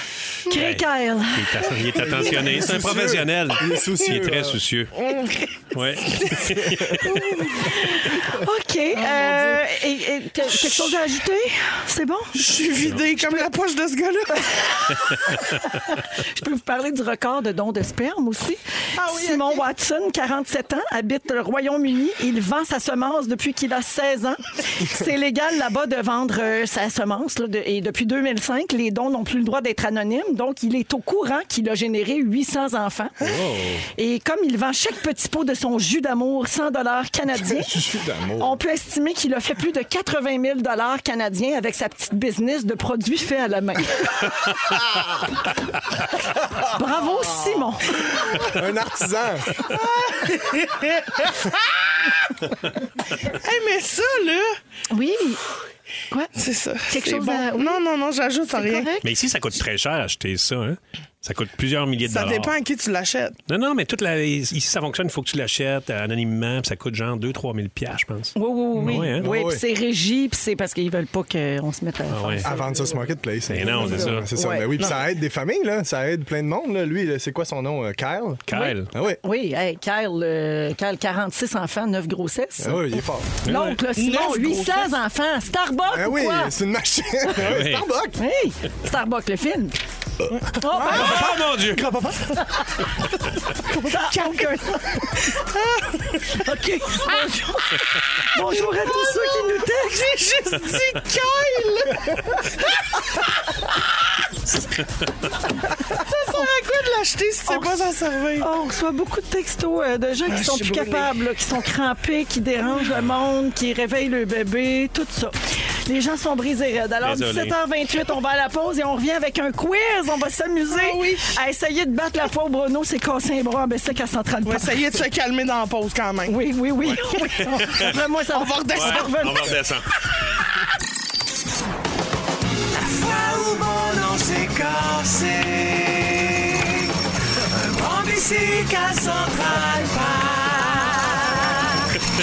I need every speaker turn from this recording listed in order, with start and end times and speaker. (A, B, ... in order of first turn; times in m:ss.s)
0:00.5-0:01.7 A
0:00.5-0:05.0 B
0:01.9-0:04.6 C
0:05.0-0:05.5 D
0:05.7-0:07.3 B
0:06.1-0:06.4 D
0:07.0-0:07.8 D
0:07.4-0:12.4 A
0:09.0-0:09.7 D
0:10.5-0:10.9 D
0:12.4-0:15.1 D
0:14.9-0:33.2 A
0:19.0-0:19.6 D
0:33.2-0:33.8 B
0:34.0-0:37.7 A
0:37.3-0:38.6 C
0:38.4-0:44.3 A
0:46.6-0:48.0 A
0:48.0-0:49.6 C
0:49.8-0:51.2 D
0:53.2-0:54.6 D
0:54.9-0:55.4 A
0:56.4-0:58.9 D
0:56.9-0:57.8 A
0:58.5-0:59.1 A
0:59.0-1:02.6 B
1:02.0-1:03.4 D
1:03.5-1:09.3 B
1:08.4-1:12.7 A
1:08.8-1:09.6 C
1:12.1-1:12.5 B
1:12.4-1:19.2 C
1:13.5-1:14.3 B
1:13.6-1:14.7 A
1:18.5-1:18.9 B
1:18.5-1:26.6 A
1:22.6-1:23.4 C
1:23.4-1:23.8 B
1:24.0-1:24.9 D
1:25.9-1:28.2 C
1:27.4-1:27.9 B
1:28.2-1:29.8 A
1:30.3-1:32.4 C
1:30.6-1:31.3 A
1:30.6-1:31.0 D
1:30.9-1:31.8 B
1:32.5-1:32.8 A
1:33.6-1:35.4 A
1:35.3-1:36.2 D
1:36.3-1:40.2 A
1:38.2-1:42.9 D
1:45.9-1:48.5 D
1:47.5-1:47.8 A
1:48.4-1:55.3 A
1:50.3-1:51.1 D
1:55.9-2:04.7 A
1:57.0-1:57.6 B
2:00.7-2:01.3 D
2:04.4-2:07.0 D
2:06.3-2:09.5 A
2:07.4-2:07.9 B
2:08.3-2:09.3 D
2:08.7-2:09.9 B
2:12.7-2:21.7 E
2:20.9-2:21.5 A